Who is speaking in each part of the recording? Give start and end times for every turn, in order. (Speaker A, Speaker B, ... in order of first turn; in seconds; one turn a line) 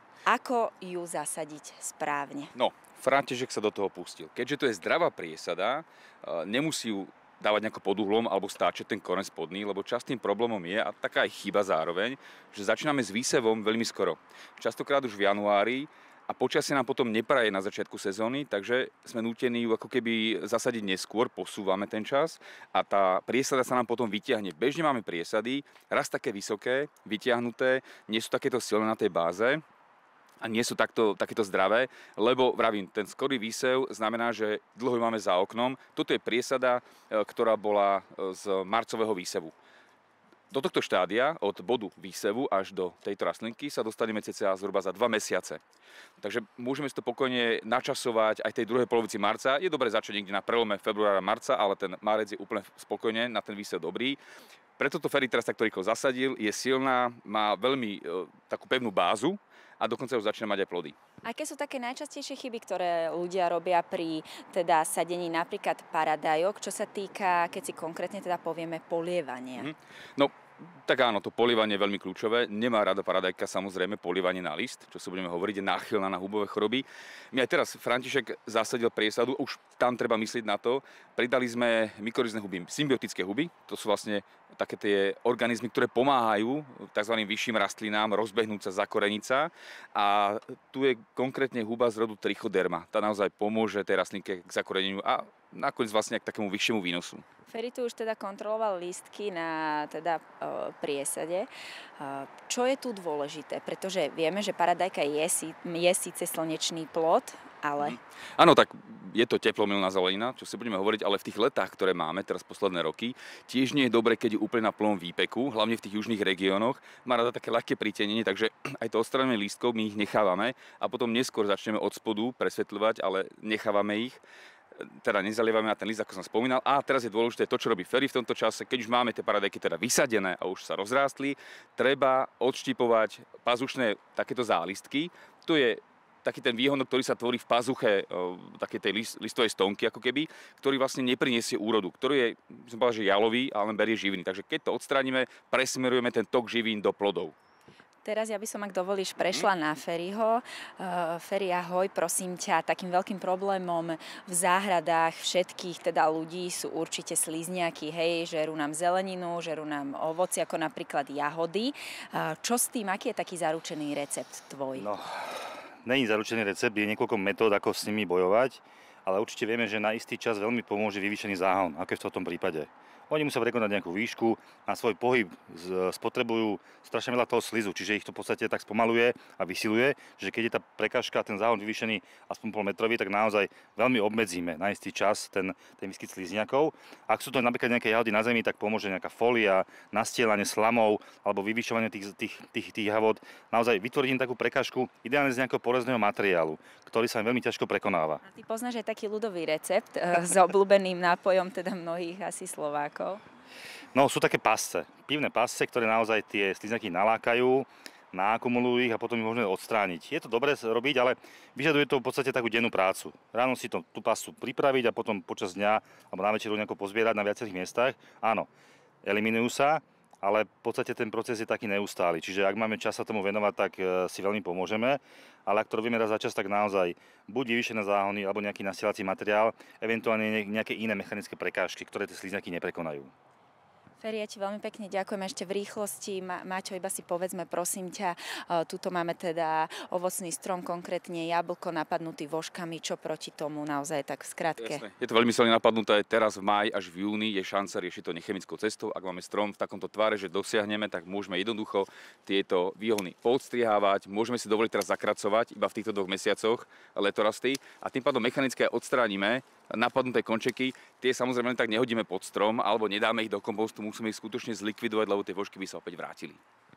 Speaker A: 0.2-2.5
Speaker B: 2.5-29.6
Speaker B: 30.4-39.5
Speaker B: 40.5-45.6
Speaker B: 46.2-54.2
Speaker B: 54.8-61.0
Speaker A: 61.2-69.7
Speaker B: 69.6-97.2
Speaker A: 97.5-108.0
Speaker B: 107.8-124.2
Speaker B: 124.8-147.3
Speaker A: 148.0-164.9
Speaker B: 149.2-149.5
Speaker C: 164.7-198.2
Speaker A: 198.2-203.2
Speaker C: 203.9-218.5
Speaker C: 219.0-233.1
Speaker A: 234.0-244.8
Speaker B: 244.6-266.4